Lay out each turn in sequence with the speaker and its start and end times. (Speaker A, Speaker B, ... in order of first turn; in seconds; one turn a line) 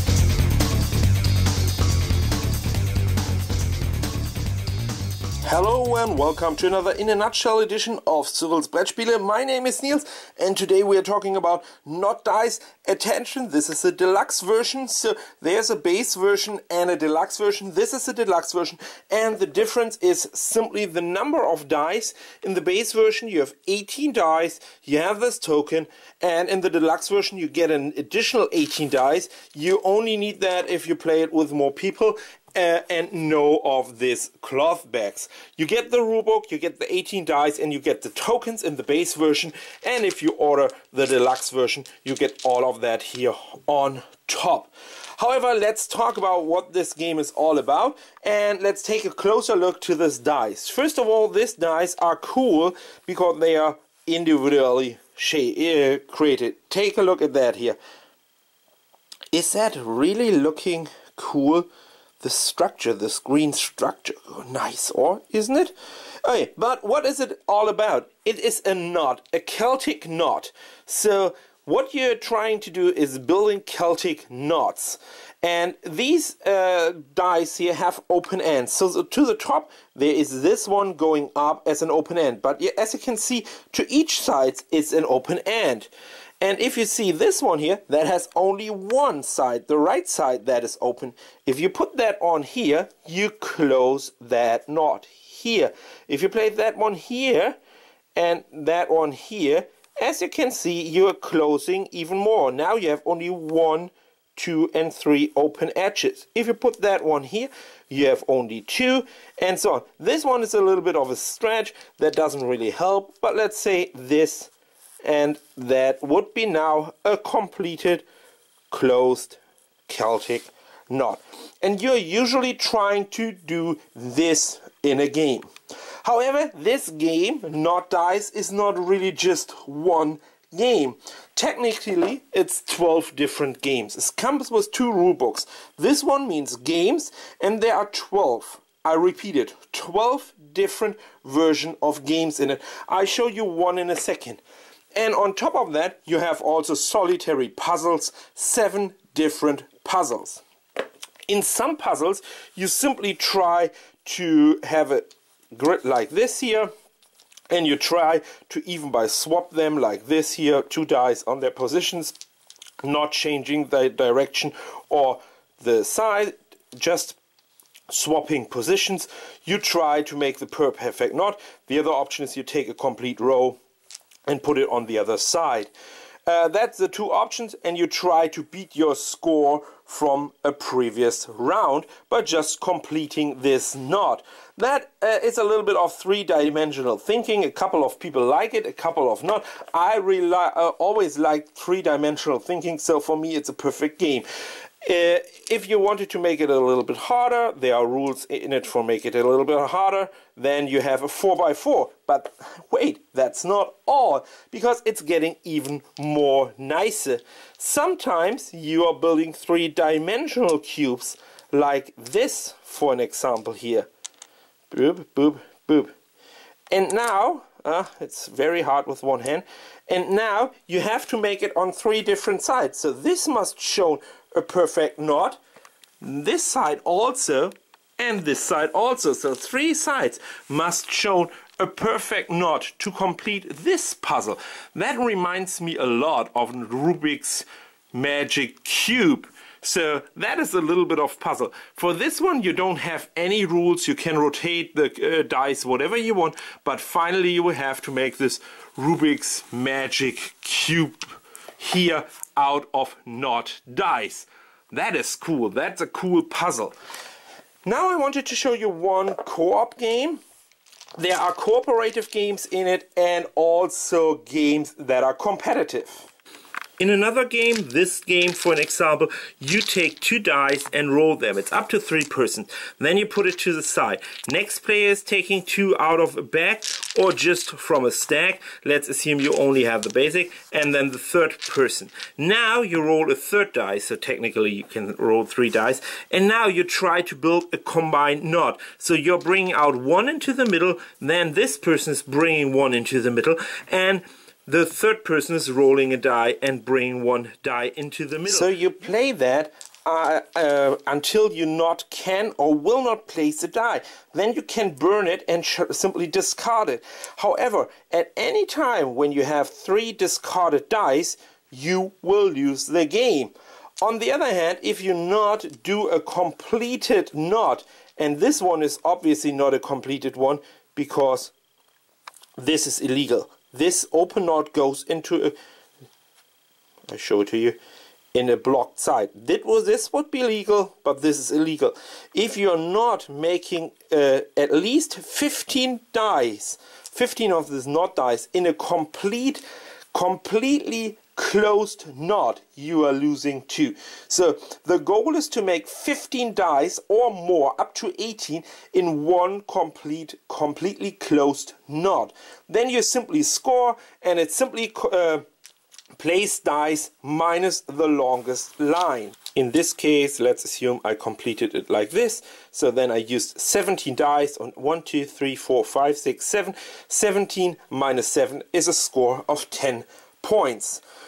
Speaker A: 5.4-57.8
Speaker A: 59.3-61.7
Speaker A: 62.2-85.9
Speaker A: 86.4-97.6
Speaker A: 98.1-114.5
Speaker A: 115.0-118.0
Speaker A: 118.7-125.5
Speaker A: 126.0-144.4
Speaker A: 144.9-150.4
Speaker A: 151.3-156.7
Speaker A: 157.5-162.1
Speaker A: 162.8-167.2
Speaker A: 167.9-173.6
Speaker A: 174.3-175.7
Speaker A: 176.2-194.2
Speaker A: 194.8-213.9
Speaker A: 214.7-215.9
Speaker A: 216.7-225.4
Speaker A: 226.0-256.7
Speaker A: 257.6-260.2
Speaker A: 261.0-266.1
Speaker A: 266.8-321.3
Speaker A: 322.4-325.3
Speaker A: 326.9-327.6
Speaker A: 328.1-355.2
Speaker A: 355.9-370.8